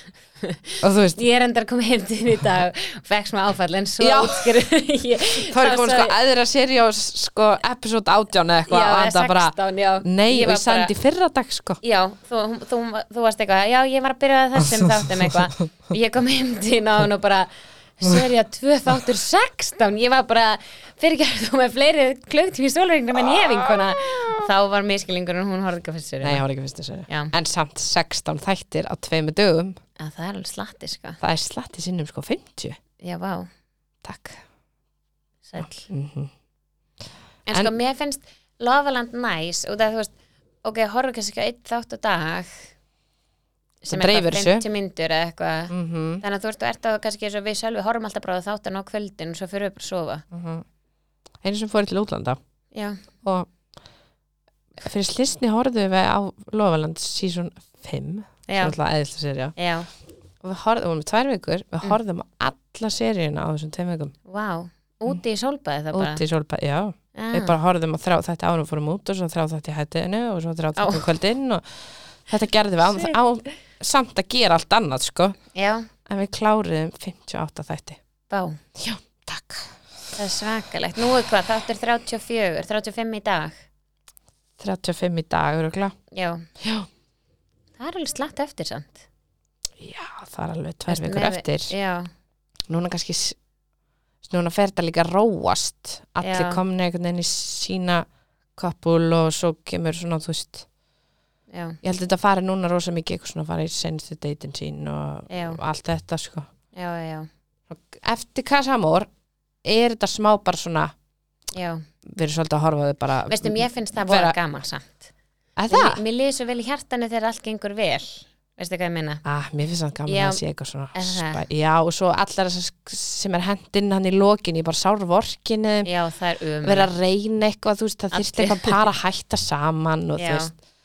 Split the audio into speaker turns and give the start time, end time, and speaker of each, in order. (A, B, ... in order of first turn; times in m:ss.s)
0:00.4-0:06.1 A
0:00.8-0:01.2 B
0:04.0-0:04.6 B
0:05.5-0:11.8 B
0:08.7-0:10.9 A
0:11.8-0:26.4 A
0:23.9-0:24.3 B
0:26.2-0:29.8 B
0:30.0-0:31.2 A
0:31.2-0:32.8 B
0:33.0-0:33.5 A
0:34.0-0:34.4 B
0:35.4-0:35.9 A
0:35.6-0:36.3 B
0:37.5-0:42.6 A
0:43.8-0:50.2 A
0:43.9-0:44.6 B
0:45.7-0:46.2 B
0:50.3-0:50.6 B
0:51.4-0:52.4 B
0:52.7-0:53.0 A
0:53.2-0:53.5 B
0:54.8-0:59.5 B
0:58.5-0:58.8 A
0:59.6-0:59.9 A
1:00.4-1:04.1 B
1:04.3-1:06.2 A
1:05.9-1:15.4 B
1:07.1-1:07.6 A
1:10.8-1:11.0 A
1:12.9-1:13.2 A
1:15.5-1:15.9 A
1:16.0-1:18.0 B
1:18.3-1:18.6 A
1:18.8-1:19.8 B
1:20.1-1:23.6 A
1:24.6-1:25.9 B
1:26.1-1:26.5 A
1:26.6-1:26.9 B
1:27.8-1:29.0 A
1:29.8-1:31.7 B
1:30.9-1:32.1 A
1:32.7-1:33.4 B
1:34.2-1:40.6 B
1:36.2-1:36.6 A
1:41.5-1:41.8 A
1:41.8-1:46.5 B
1:45.3-1:45.6 A
1:46.7-1:47.3 A
1:47.7-1:49.1 B
1:49.6-1:50.9 B
1:51.5-1:51.8 A
1:52.0-1:54.4 B
1:53.3-1:55.1 A
1:55.6-1:56.0 B
1:55.7-1:59.2 A
1:59.2-2:05.9 B
2:00.1-2:00.4 A
2:00.9-2:01.4 A
2:05.8-2:06.9 A
2:06.6-2:10.5 B
2:08.1-2:08.9 A
2:10.2-2:10.5 A